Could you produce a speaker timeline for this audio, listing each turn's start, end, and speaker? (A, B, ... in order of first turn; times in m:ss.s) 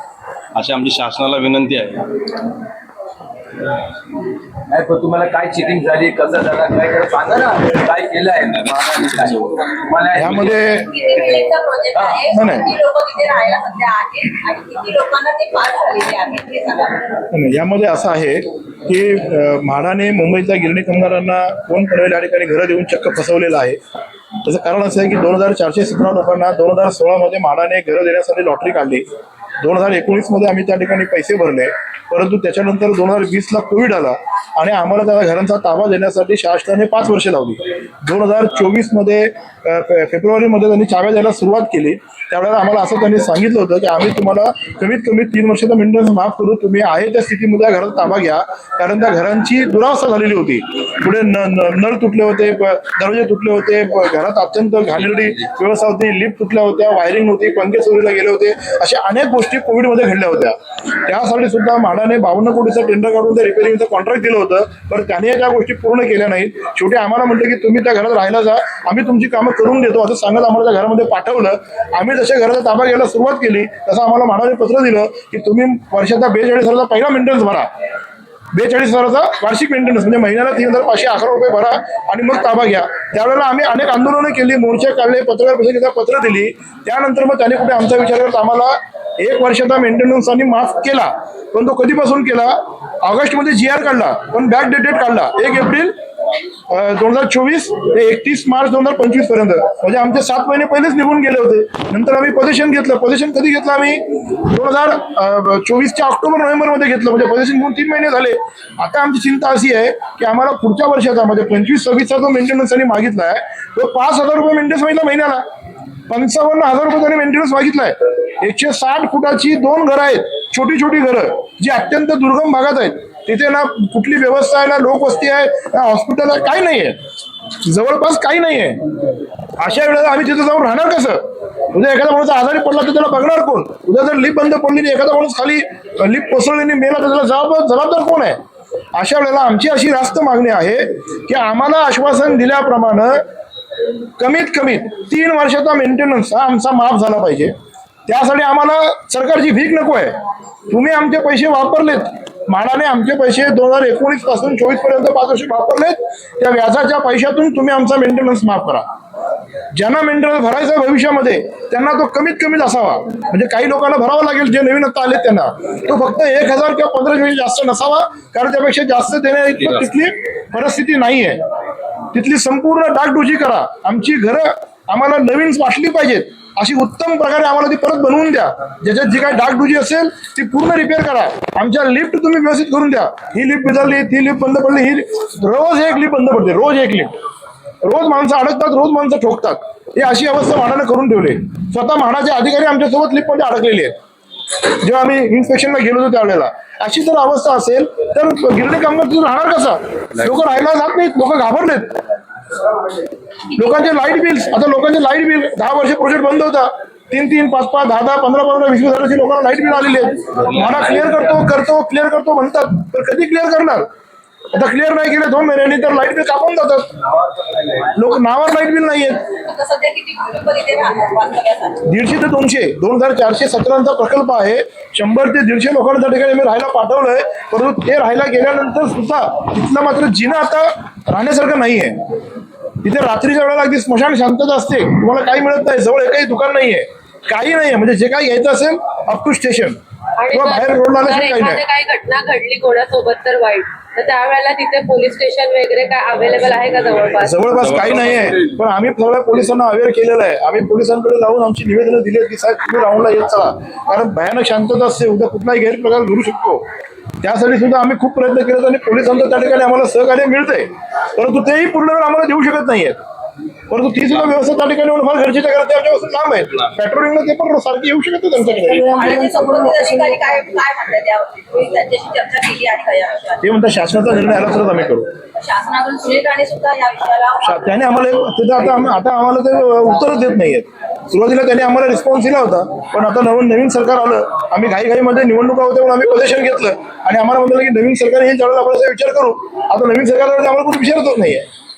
0:00.5-0:02.1 A
0:04.7-0:10.7 B
0:08.5-0:09.4 A
0:10.1-0:10.9 C
0:10.5-0:17.2 D
0:12.0-0:12.2 B
0:12.3-0:12.7 C
0:17.3-0:23.8 C
0:24.4-0:29.0 C
0:29.6-1:17.7 C
1:18.5-1:35.9 C
1:36.7-1:55.4 C
1:56.1-2:07.0 C
2:07.6-2:08.8 C
2:09.6-2:18.4 C
2:18.9-2:23.2 C
2:24.2-2:27.5 C
2:28.0-2:30.1 C
2:30.7-2:38.8 C
2:39.7-2:51.4 C
2:52.1-3:07.1 C
3:07.8-3:13.9 C
3:14.7-3:22.0 C
3:23.5-3:33.9 C
3:34.5-3:36.9 C
3:37.8-3:39.2 C
3:39.3-3:41.8 D
3:41.8-3:52.0 C
3:52.8-3:59.8 C
4:00.2-4:07.4 E
4:00.3-4:01.6 C
4:07.2-4:16.6 C
4:07.6-4:08.3 A
4:17.2-4:23.0 C
4:23.7-4:29.0 C
4:28.7-4:33.5 D
4:33.4-4:35.1 C
4:35.4-4:37.6 D
4:37.4-4:51.4 C